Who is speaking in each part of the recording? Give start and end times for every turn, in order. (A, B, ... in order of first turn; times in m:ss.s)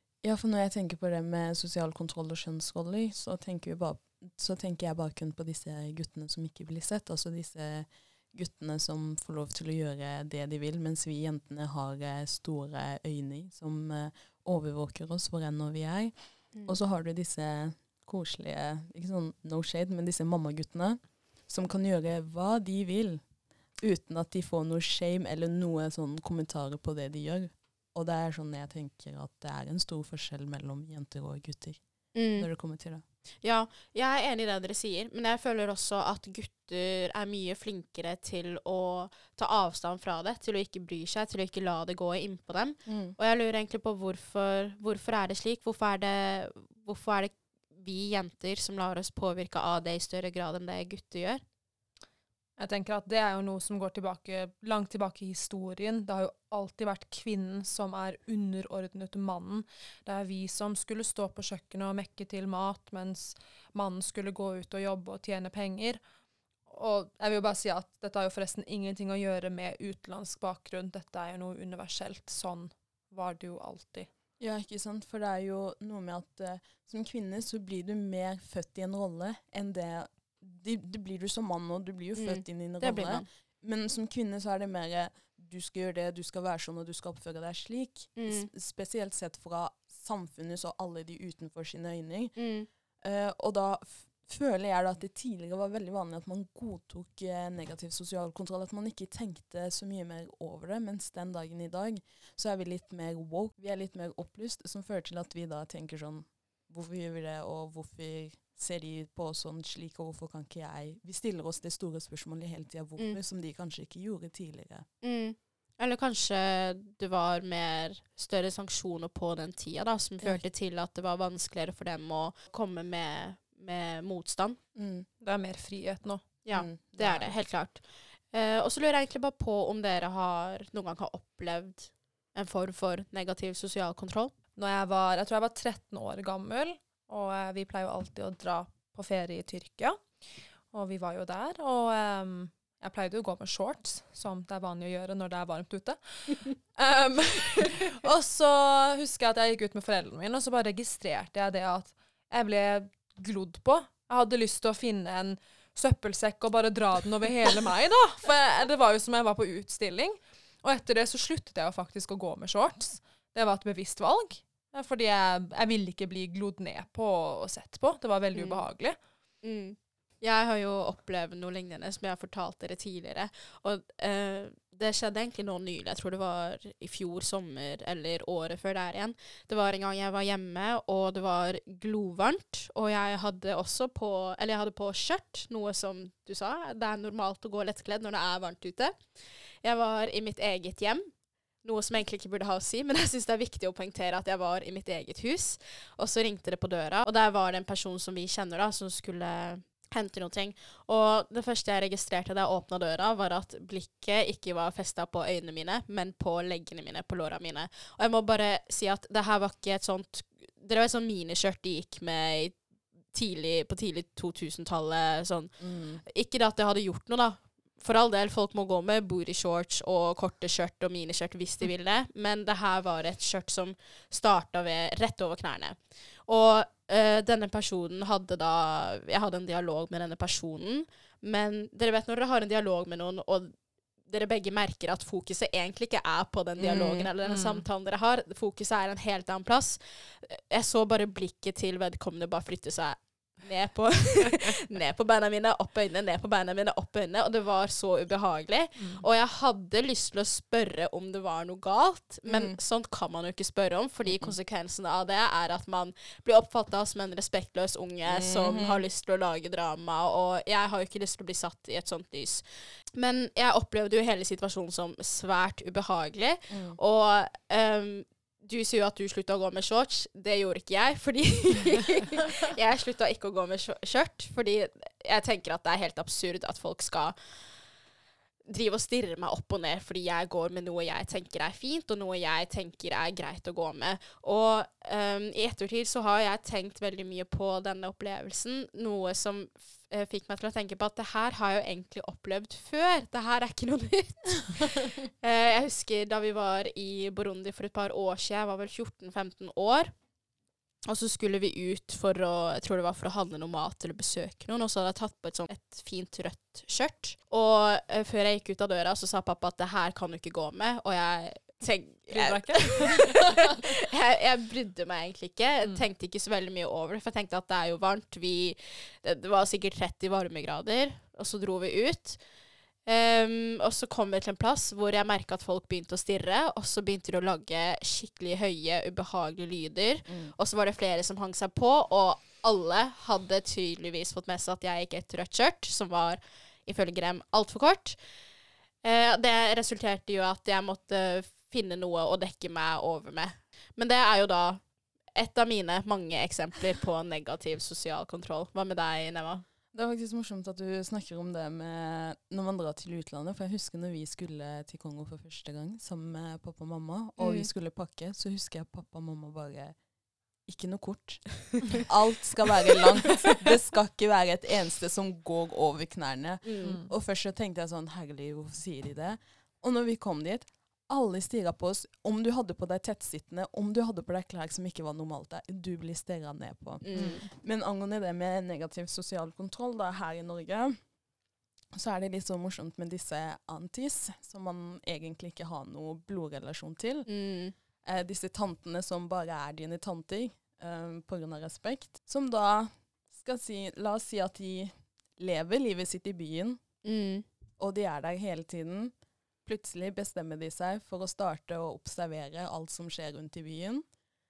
0:00.2-0:23.2 A
0:23.8-0:31.8 A
0:32.1-0:32.5 B
0:32.4-0:33.0 A
0:33.4-0:51.4 B
0:42.8-0:43.2 A
0:52.6-1:06.0 C
1:06.7-1:14.1 C
1:14.4-1:32.4 A
1:22.2-1:23.2 B
1:28.2-1:28.5 B
1:32.3-1:32.7 B
1:33.0-1:54.8 A
1:55.0-2:04.6 B
2:04.7-2:05.1 A
2:05.2-2:06.2 C
2:06.4-2:14.3 B
2:06.5-2:07.3 A
2:14.6-2:20.0 C
2:20.7-2:49.0 C
2:48.3-2:48.6 B
2:49.4-3:11.1 B
3:11.6-3:32.6 B
3:33.1-4:37.2 B
3:35.6-3:36.0 A
3:56.6-3:57.1 A
3:57.2-3:57.6 C
4:08.8-4:09.0 C
4:12.2-4:12.6 A
4:14.0-4:14.3 A
4:18.0-4:18.8 A
4:26.5-4:26.8 A
4:38.5-4:59.9 B
5:00.9-5:22.2 B
5:12.1-5:13.5 C
5:22.8-5:38.0 B
5:30.1-5:30.3 A
5:38.8-5:44.6 B
5:45.2-5:49.4 B
5:49.7-5:59.8 A
5:57.2-5:57.5 B
6:00.4-6:20.8 A
6:06.4-6:06.8 B
6:06.6-6:06.9 C
6:16.8-6:17.2 B
6:16.9-6:17.2 C
6:21.7-6:27.1 A
6:27.1-6:27.5 B
6:27.8-6:36.6 A
6:36.8-6:37.2 B
6:37.6-6:38.9 A
6:39.5-6:43.8 A